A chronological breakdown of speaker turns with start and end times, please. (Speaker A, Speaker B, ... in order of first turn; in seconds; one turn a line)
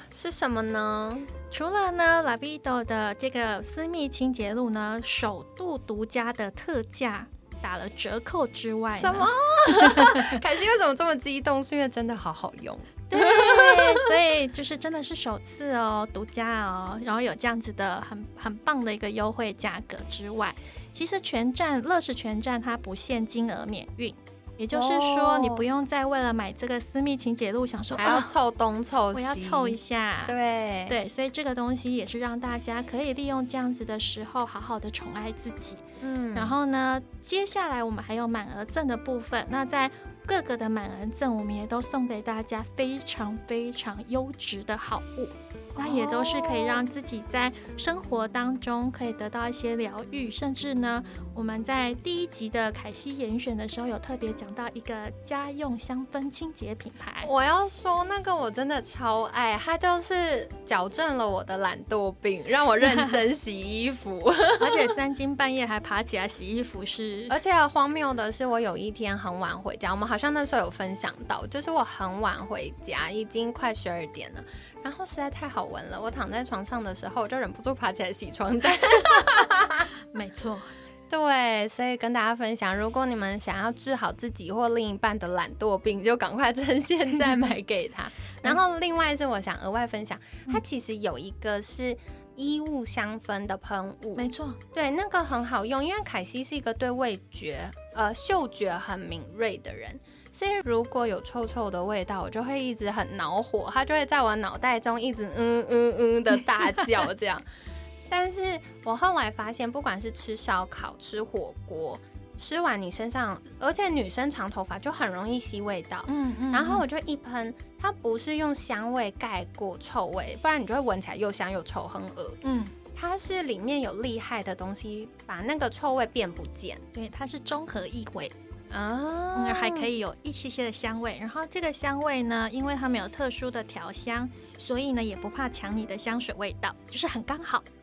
Speaker A: 0.1-1.3
Speaker B: 1.5-10.4
Speaker A: 8.9-14.1
Speaker B: 13.1-28.3
Speaker A: 24.7-25.6
Speaker A: 27.9-31.0
Speaker B: 29.1-30.4
Speaker B: 30.9-57.3
Speaker A: 36.0-36.5
Speaker A: 45.7-46.8
Speaker A: 57.2-64.9
Speaker B: 64.6-67.4
Speaker A: 67.3-79.9
Speaker B: 80.1-80.7
Speaker A: 81.1-107.4
Speaker B: 94.2-94.6
Speaker A: 108.1-122.4
Speaker B: 116.1-116.8
Speaker B: 122.4-122.7
Speaker A: 122.9-126.8
Speaker B: 126.9-128.3
Speaker A: 128.7-129.9
Speaker B: 129.3-137.6